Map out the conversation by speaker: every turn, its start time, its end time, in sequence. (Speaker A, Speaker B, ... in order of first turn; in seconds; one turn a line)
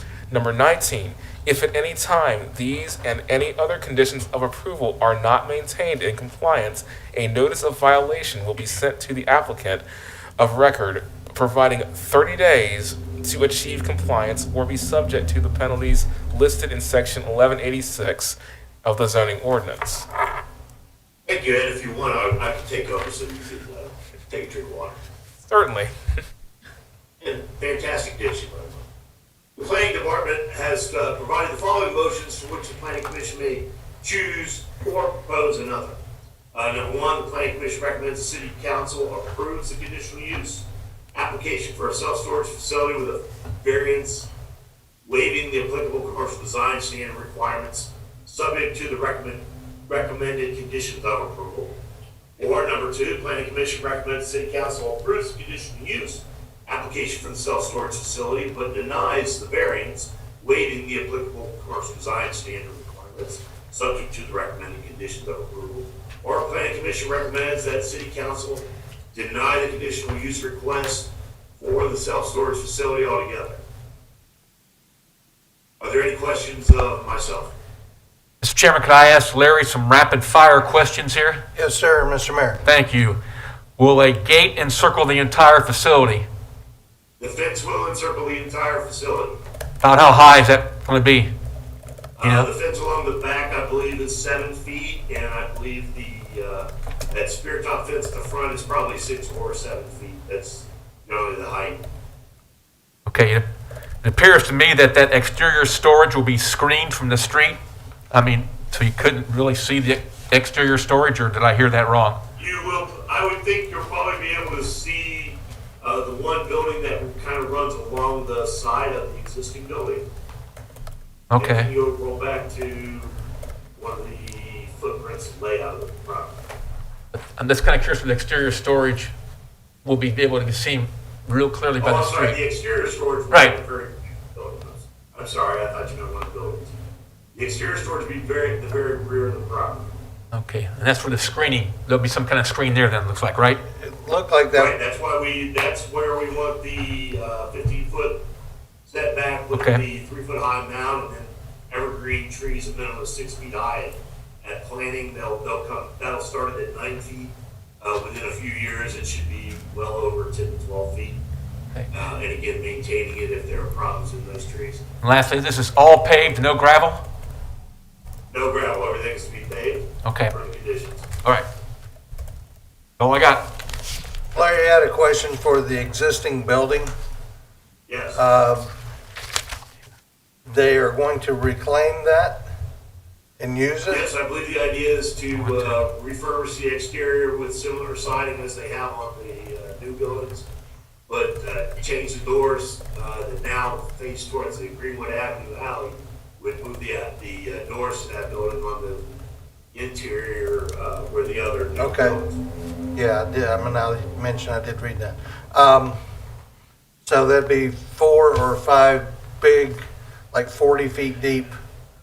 Speaker A: 0.3-9.8
Speaker A: 10.4-20.1
Speaker B: 21.2-25.0
Speaker A: 25.4-25.9
Speaker B: 27.2-28.8
Speaker B: 29.6-36.0
Speaker B: 36.5-44.3
Speaker B: 45.0-51.7
Speaker B: 52.4-73.6
Speaker B: 75.8-77.5
Speaker C: 78.4-81.4
Speaker D: 81.5-82.6
Speaker C: 82.6-83.2
Speaker C: 83.8-86.2
Speaker B: 87.2-89.4
Speaker C: 89.8-91.3
Speaker B: 92.2-101.8
Speaker C: 92.2-92.5
Speaker C: 103.0-103.4
Speaker C: 104.0-107.6
Speaker C: 108.1-112.2
Speaker B: 112.4-120.0
Speaker C: 121.3-121.7
Speaker B: 121.3-123.2
Speaker B: 123.8-126.4
Speaker C: 127.1-129.1
Speaker C: 129.8-132.4
Speaker B: 131.8-136.7
Speaker C: 133.3-133.6
Speaker B: 137.3-139.9
Speaker C: 140.3-143.6
Speaker D: 143.7-144.7
Speaker B: 144.5-148.2
Speaker B: 148.8-161.2
Speaker C: 149.5-149.8
Speaker B: 161.9-164.8
Speaker C: 165.0-167.0
Speaker B: 168.3-171.1
Speaker C: 170.0-170.3
Speaker C: 173.0-173.4
Speaker D: 174.3-176.9
Speaker B: 177.9-178.2
Speaker D: 178.1-178.7
Speaker D: 180.4-182.5
Speaker D: 183.4-184.0
Speaker B: 183.9-190.4
Speaker B: 191.1-199.2
Speaker B: 199.7-202.4
Speaker D: 201.8-202.2
Speaker D: 202.9-206.0
Speaker D: 207.0-211.5